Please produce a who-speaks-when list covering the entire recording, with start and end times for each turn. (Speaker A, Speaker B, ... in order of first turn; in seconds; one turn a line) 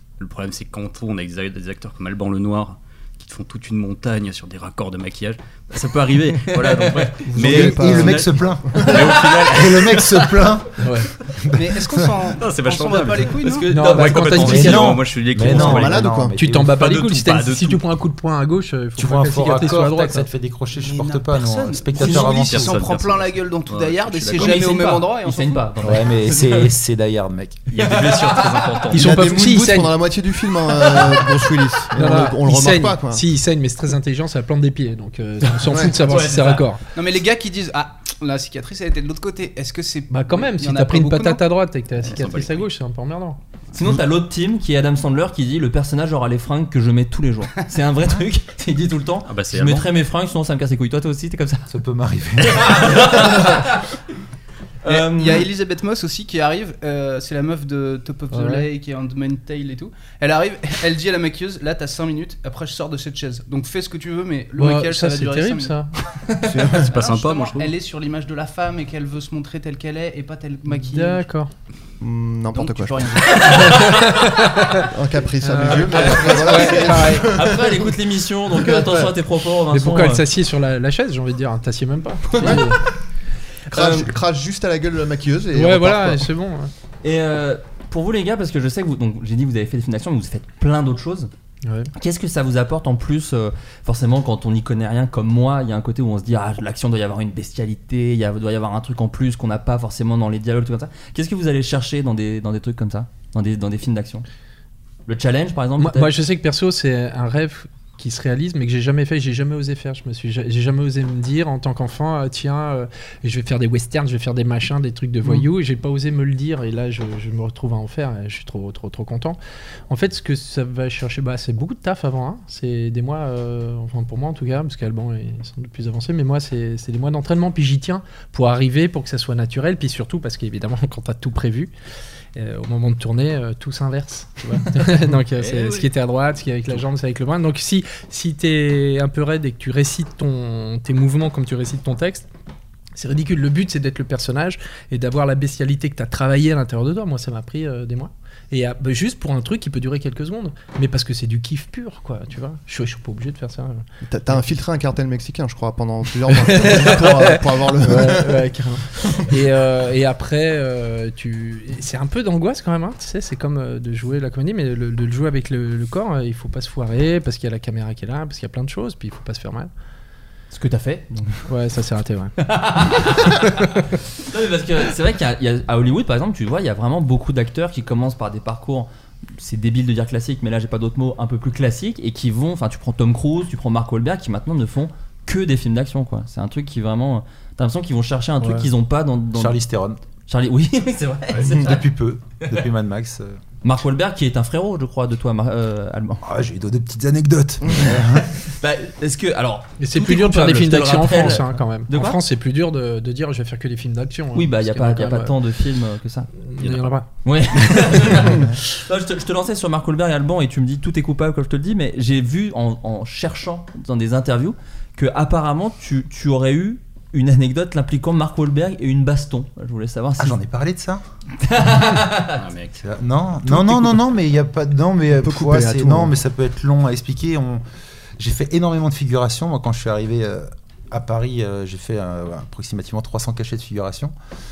Speaker A: 0.2-10.3
Speaker B: 6.6-7.1
Speaker C: 7.3-8.9
Speaker D: 7.4-12.1
Speaker E: 10.8-11.1
Speaker F: 11.5-13.7
Speaker A: 12.4-16.1
Speaker B: 13.4-14.9
Speaker E: 13.7-15.0
Speaker D: 14.3-16.8
Speaker C: 15.4-16.4
Speaker E: 16.3-20.3
Speaker A: 16.7-17.8
Speaker D: 19.0-22.7
Speaker F: 20.7-25.7
Speaker A: 22.0-24.6
Speaker B: 24.4-26.7
Speaker D: 25.8-27.6
Speaker A: 27.7-29.1
Speaker E: 28.9-30.0
Speaker C: 28.9-33.2
Speaker E: 31.9-36.8
Speaker C: 35.7-36.0
Speaker B: 36.1-36.6
Speaker A: 36.1-36.6
Speaker F: 36.9-41.4
Speaker E: 40.1-43.4
Speaker A: 42.0-42.7
Speaker B: 43.7-51.7
Speaker A: 49.3-49.9
Speaker D: 51.7-53.5
Speaker B: 52.4-54.0
Speaker B: 54.8-55.5
Speaker F: 54.9-65.8
Speaker E: 58.3-58.7
Speaker E: 64.5-65.9
Speaker C: 66.4-66.9
Speaker A: 66.7-67.7
Speaker F: 66.8-71.2
Speaker E: 70.7-71.5
Speaker C: 72.0-73.9
Speaker F: 72.5-73.7
Speaker B: 73.5-74.0
Speaker E: 73.8-74.8
Speaker C: 74.8-77.8
Speaker E: 75.4-77.3
Speaker B: 76.0-80.2
Speaker E: 79.7-82.8
Speaker B: 82.3-82.7
Speaker C: 82.4-82.7
Speaker B: 83.7-84.1
Speaker C: 83.7-86.3
Speaker E: 85.5-86.7
Speaker B: 87.0-91.3
Speaker E: 91.6-91.9
Speaker B: 91.9-104.2
Speaker B: 105.1-106.1
Speaker E: 105.8-119.4
Speaker E: 119.9-131.7
Speaker E: 132.3-142.3
Speaker A: 135.3-135.9
Speaker E: 142.9-153.8
Speaker C: 154.1-158.5
Speaker E: 156.2-169.7
Speaker B: 170.5-171.5
Speaker E: 171.5-172.3
Speaker B: 172.4-173.7
Speaker B: 174.2-189.6
Speaker D: 189.3-190.0
Speaker B: 190.3-191.8
Speaker D: 191.4-193.4
Speaker B: 193.6-196.2
Speaker D: 196.2-198.3
Speaker B: 197.8-202.2
Speaker E: 199.8-205.3
Speaker B: 204.3-206.3
Speaker E: 206.4-207.1
Speaker B: 207.2-220.4
Speaker D: 220.2-221.0
Speaker B: 221.4-222.4
Speaker A: 222.4-222.8
Speaker D: 222.8-227.6
Speaker C: 225.1-226.1
Speaker D: 228.2-234.1